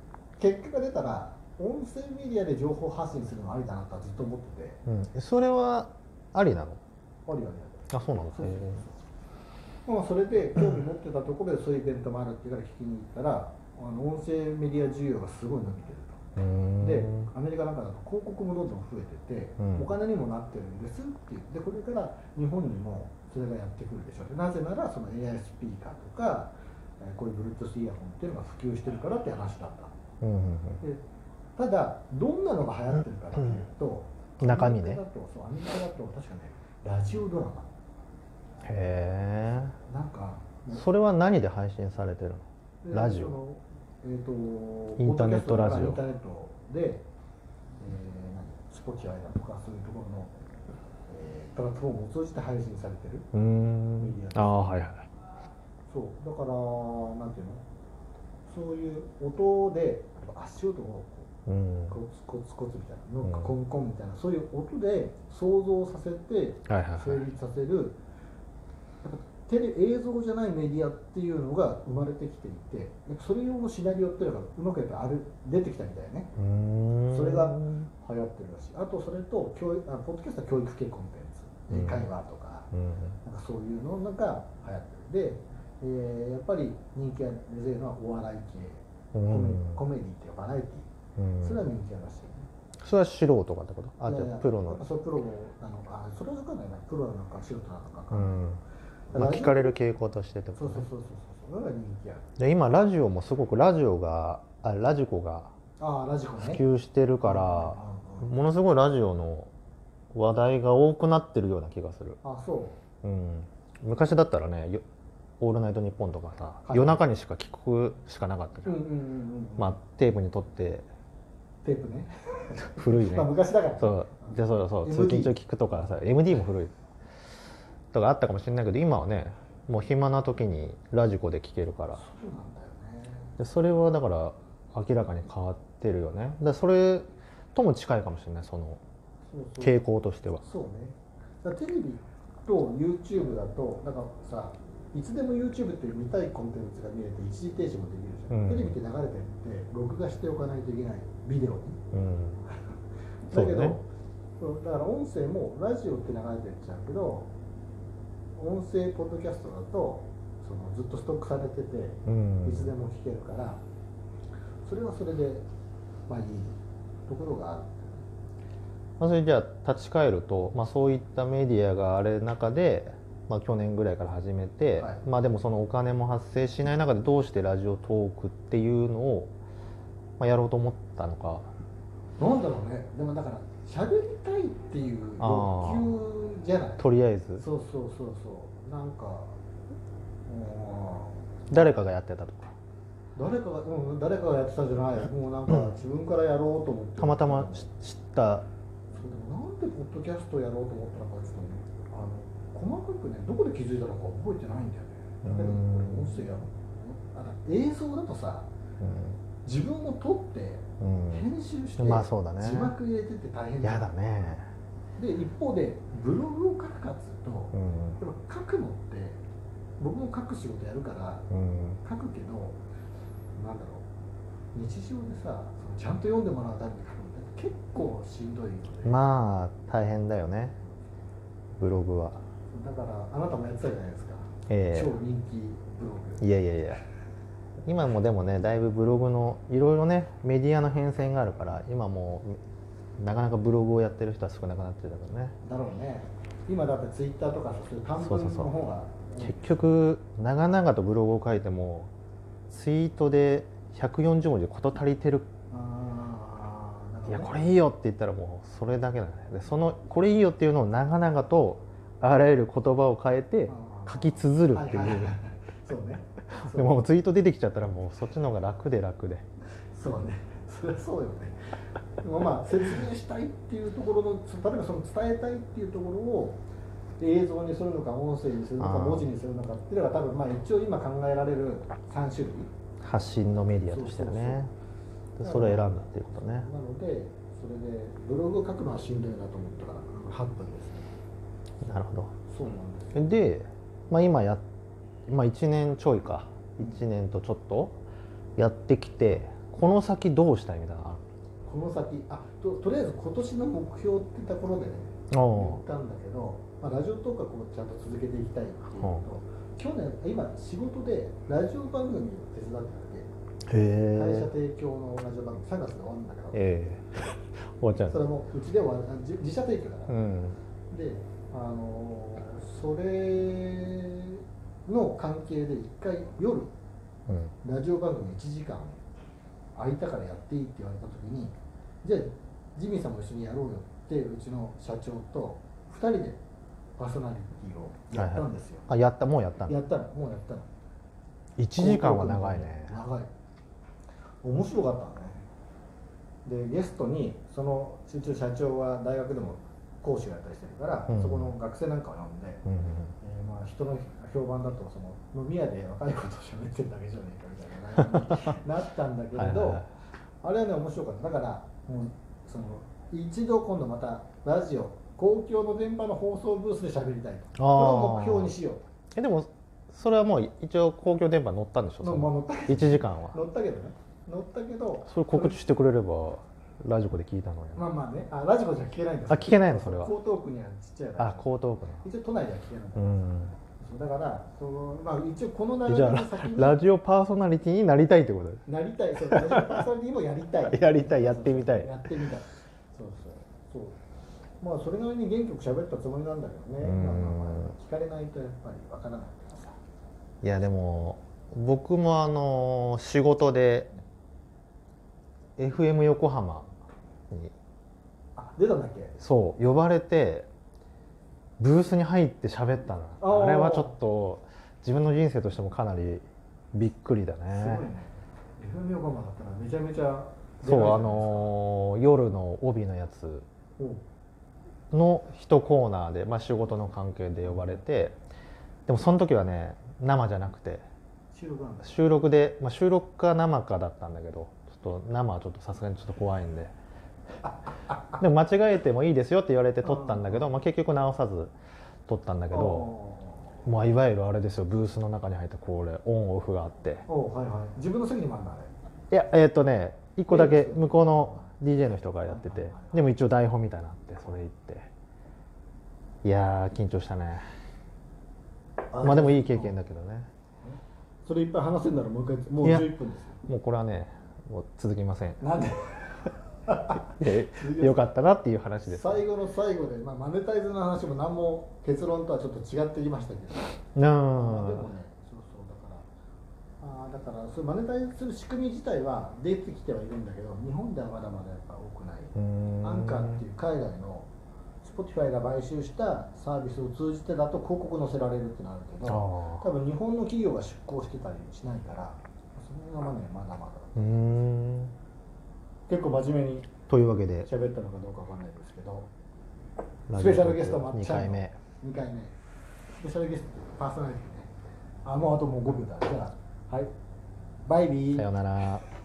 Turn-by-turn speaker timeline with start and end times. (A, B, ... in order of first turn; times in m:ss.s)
0:00.4-0:04.8 A
0:04.9-0:06.8 B
0:07.3-0:08.9 A
0:07.9-0:08.8 B
0:09.9-0:16.2 A
0:16.4-0:17.3 B
0:16.8-0:30.0 A
0:19.6-0:19.9 B
0:30.2-0:30.8 B
0:31.6-0:37.7 A
0:34.4-0:35.0 B
0:38.6-0:39.8 B
0:39.9-0:40.8 A
0:40.7-0:43.4 B
0:42.8-0:47.1 A
0:45.0-0:46.0 B
0:47.8-0:50.3 A
0:51.1-0:53.3 A
0:53.3-0:55.1 B
0:54.0-0:54.9 A
0:55.9-0:57.6 A
0:58.5-1:01.3 A
1:01.5-1:02.0 B
1:01.9-1:08.0 A
1:06.7-1:07.2 B
1:09.0-1:16.4 A
1:16.4-1:17.9 B
1:17.1-1:22.7 A
1:21.7-1:22.0 B
1:22.7-1:23.1 B
1:23.2-1:32.5 A
1:29.1-1:29.8 B
1:31.2-1:31.6 B
1:32.8-1:34.8 B
1:34.0-1:38.4 A
1:38.1-1:38.6 B
1:39.1-1:39.8 A
1:39.1-1:40.9 B
1:40.6-1:42.3 A
1:42.4-1:45.5 B
1:45.8-1:46.6 A
1:46.4-1:49.5 B
1:47.2-1:48.3 A
1:50.1-1:52.2 B
1:52.2-1:52.8 A
1:53.0-1:54.8 B
1:55.4-1:58.8 B
1:56.6-1:57.0 A
1:58.7-1:59.8 A
1:59.6-2:00.9 B
2:01.6-2:05.3 A
2:02.8-2:06.7 B
2:07.9-2:12.0 B
2:12.0-2:13.4 A
2:13.4-2:18.8 B
2:19.3-2:19.8 A
2:19.6-2:20.4 B
2:20.4-2:31.8 A
2:28.3-2:28.8 B
2:31.9-2:32.4 B
2:33.3-2:33.9 A
2:33.3-2:33.8 B
2:34.4-2:37.3 A
2:38.4-2:43.6 A
2:42.1-2:42.7 B
2:44.6-2:45.5 A
2:46.1-2:48.0 A
2:49.0-2:59.3 B
2:54.8-2:55.0 A
3:00.2-3:01.5 B
3:02.2-3:06.8 A
3:05.2-3:05.9 B
3:06.8-3:07.4 B
3:07.4-3:09.4 A
3:10.3-3:11.7 A
3:11.5-3:12.5 B
3:13.2-3:17.7 A
3:17.0-3:18.5 B
3:19.0-3:28.5 A
3:25.2-3:26.2 B
3:28.8-3:29.2 B
3:29.4-3:33.9 A
3:30.8-3:31.2 B
3:31.8-3:32.7 B
3:33.6-3:34.5 B
3:35.0-3:39.2 A
3:37.5-3:38.0 B
3:39.8-3:41.3 A
3:41.3-3:41.8 B
3:41.8-3:42.6 A
3:43.4-3:43.9 A
3:44.5-3:49.0 A
3:48.8-3:50.6 B
3:51.6-3:52.2 B
3:52.5-3:56.3 A
3:54.5-3:55.0 B
3:56.2-3:56.8 B
3:57.6-4:02.4 B
4:03.0-4:05.4 B
4:05.4-4:09.7 A
4:08.0-4:08.5 B
4:09.2-4:11.9 B
4:12.5-4:15.3 B
4:15.5-4:17.5 A
4:17.1-4:25.2 B
4:23.5-4:26.8 A
4:26.3-4:29.2 B
4:29.7-4:31.4 A
4:32.0-4:36.4 A
4:37.0-4:42.5 A
4:38.6-4:39.1 B
4:42.8-4:44.5 B
4:43.7-4:44.5 A
4:45.2-4:46.5 B
4:45.2-4:50.9 A
4:51.6-4:52.1 B
4:52.3-4:53.1 A
4:53.0-4:54.4 B
4:55.1-4:57.8 B
4:58.4-5:01.0 B
5:01.5-5:13.1 A
5:05.1-5:05.6 B
5:08.7-5:09.0 B
5:13.5-5:14.3 B
5:13.9-5:16.4 A
5:16.3-5:18.0 B
5:17.9-5:20.0 A
5:19.9-5:20.4 B
5:20.7-5:26.5 A
5:27.1-5:27.3 B
5:27.4-5:28.8 A
5:29.6-5:36.2 A
5:36.8-5:38.7 A
5:37.9-5:39.6 B
5:39.5-5:40.5 A
5:41.4-5:42.8 B
5:41.6-5:43.1 A
5:44.2-5:45.3 A
5:46.2-5:52.4 A
5:50.9-5:51.3 B
5:52.4-5:52.9 B
5:53.0-5:59.7 A
5:59.2-5:59.7 B
6:00.2-6:08.6 A
6:07.4-6:08.3 B
6:09.0-6:13.2 B
6:11.8-6:15.4 A
6:14.9-6:17.7 B
6:17.6-6:21.3 A
6:19.1-6:19.9 B
6:21.0-6:21.8 B
6:21.8-6:23.0 A
6:22.8-6:23.4 B
6:23.6-6:26.6 A
6:25.7-6:28.4 B
6:28.5-6:33.8 A
6:29.0-6:29.6 B
6:30.5-6:31.8 B
6:34.4-6:39.6 A
6:36.6-6:37.5 B
6:40.2-6:43.8 B
6:45.4-6:46.5 B
6:48.2-6:49.0 A
6:49.0-6:50.3 B
6:51.4-6:57.7 B
6:53.0-6:53.8 A
6:57.3-7:01.4 A
7:00.4-7:03.3 B
7:03.6-7:03.8 A
7:04.7-7:08.0 B
7:07.2-7:07.6 A
7:08.7-7:10.6 B
7:11.1-7:11.8 A
7:11.6-7:16.5 B
7:17.2-7:18.0 A
7:18.0-7:21.3 B
7:19.6-7:20.3 A
7:21.9-7:22.7 B
7:22.3-7:23.4 A
7:23.4-7:26.9 B
7:26.9-7:28.5 A
7:28.9-7:34.7 B
7:30.1-7:31.3 A
7:32.0-7:32.9 A
7:36.0-7:37.2 B
7:38.7-7:39.6 A
7:38.8-7:40.1 B
7:40.4-7:43.2 A
7:42.4-7:42.7 B
7:43.3-7:45.2 B
7:45.2-7:47.8 A
7:47.0-7:49.0 B
7:48.7-7:53.6 A
7:53.8-7:54.7 B
7:54.1-7:55.9 A
7:56.6-8:04.1 A
8:02.2-8:03.2 B
8:04.6-8:14.2 A
8:08.9-8:09.5 B
8:13.8-8:14.8 B
8:15.7-8:16.5 A
8:16.7-8:17.3 B
8:17.2-8:18.9 A
8:19.9-8:21.4 B
8:19.9-8:22.2 A
8:22.7-8:24.3 A
8:24.8-8:26.7 A
8:27.5-8:28.5 A
8:27.9-8:28.6 B